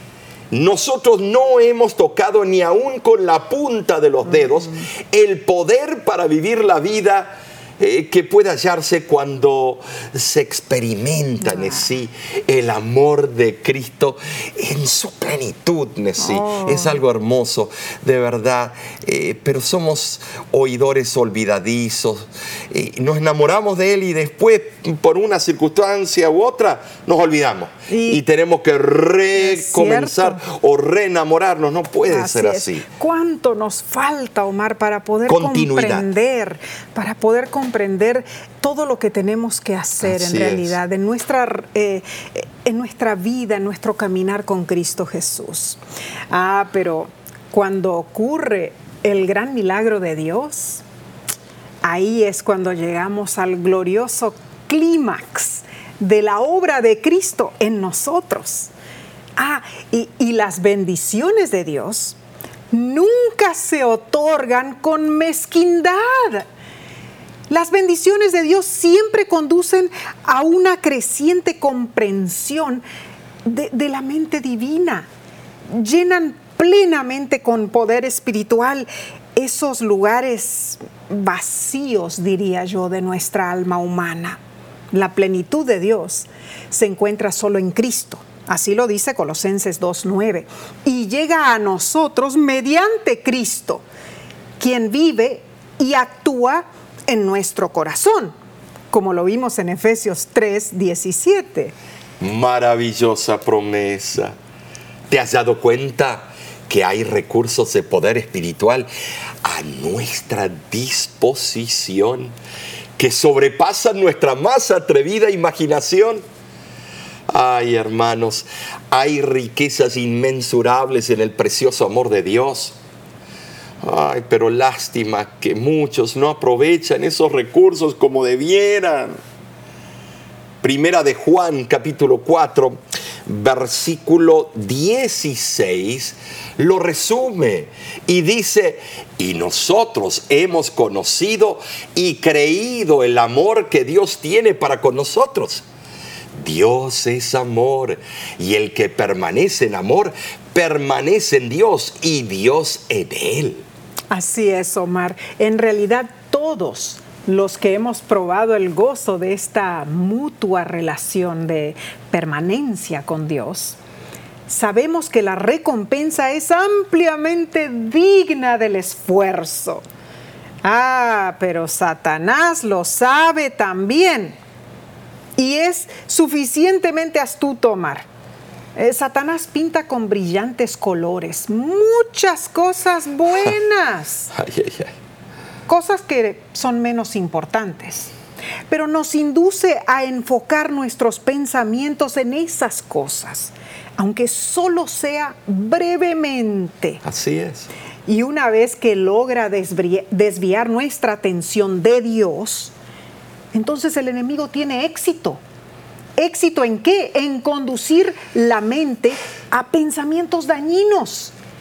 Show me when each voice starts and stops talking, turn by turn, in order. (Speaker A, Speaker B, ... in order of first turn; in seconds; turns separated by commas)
Speaker A: 0.5-32.9, Speaker B: 11.4-11.8, Speaker B: 16.2-17.0, Speaker B: 27.9-28.2, Speaker B: 29.4-30.4, Speaker B: 32.1-45.8, Speaker A: 35.3-36.1, Speaker A: 40.0-40.8, Speaker B: 46.3-50.8, Speaker B: 51.8-58.7, Speaker B: 59.4-62.2, Speaker B: 62.7-66.5, Speaker B: 67.5-72.8, Speaker B: 73.4-75.1, Speaker B: 75.7-84.4, Speaker B: 84.9-93.8, Speaker B: 94.6-98.3, Speaker B: 98.9-101.7, Speaker A: 102.2-104.3, Speaker A: 105.1-108.9, Speaker A: 109.4-112.3, Speaker A: 113.0-116.2, Speaker A: 117.3-122.8, Speaker A: 123.8-129.1, Speaker A: 130.6-145.6, Speaker A: 146.3-153.6, Speaker B: 154.1-163.8, Speaker B: 164.5-169.8, Speaker B: 170.6-174.4, Speaker B: 175.4-178.1, Speaker B: 178.8-184.3, Speaker A: 184.3-184.9, Speaker B: 185.7-188.1, Speaker B: 188.7-197.0, Speaker A: 197.0-197.7, Speaker B: 198.1-202.7, Speaker B: 203.5-205.4, Speaker B: 206.2-211.3